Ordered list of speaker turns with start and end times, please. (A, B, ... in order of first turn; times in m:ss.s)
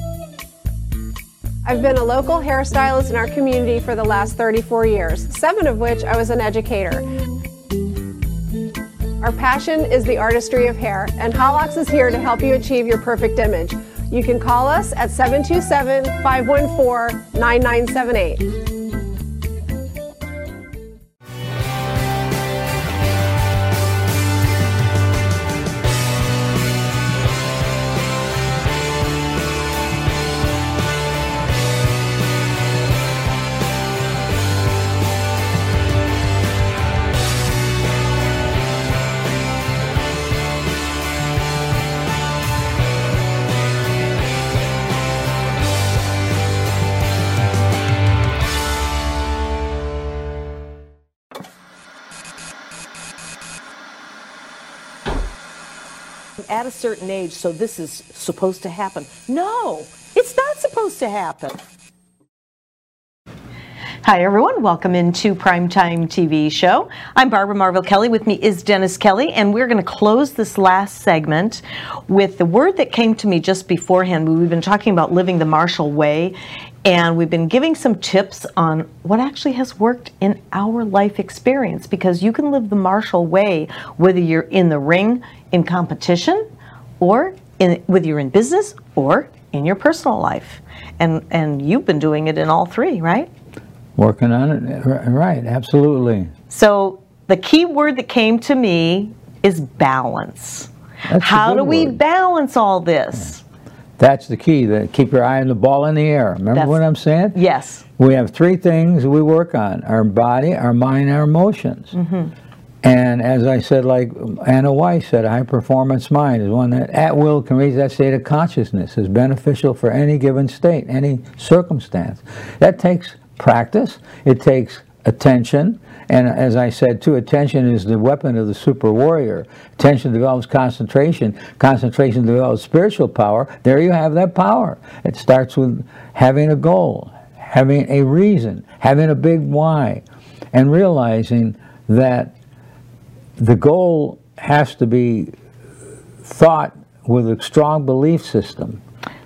0:01.6-0:07.1 A
0:09.2-0:18.5 A
0:56.4-1:01.6 B
1:04.0-1:26.5 B
1:27.0-1:33.3 B
1:34.0-1:36.3 C
1:36.5-1:43.4 B
1:41.1-1:42.0 C
1:44.0-1:47.4 C
1:46.5-1:46.8 B
1:47.3-1:47.8 B
1:48.0-1:51.9 C
1:51.9-1:52.3 B
1:52.8-2:22.3 C
2:23.4-2:25.3 C
2:26.2-2:28.8 C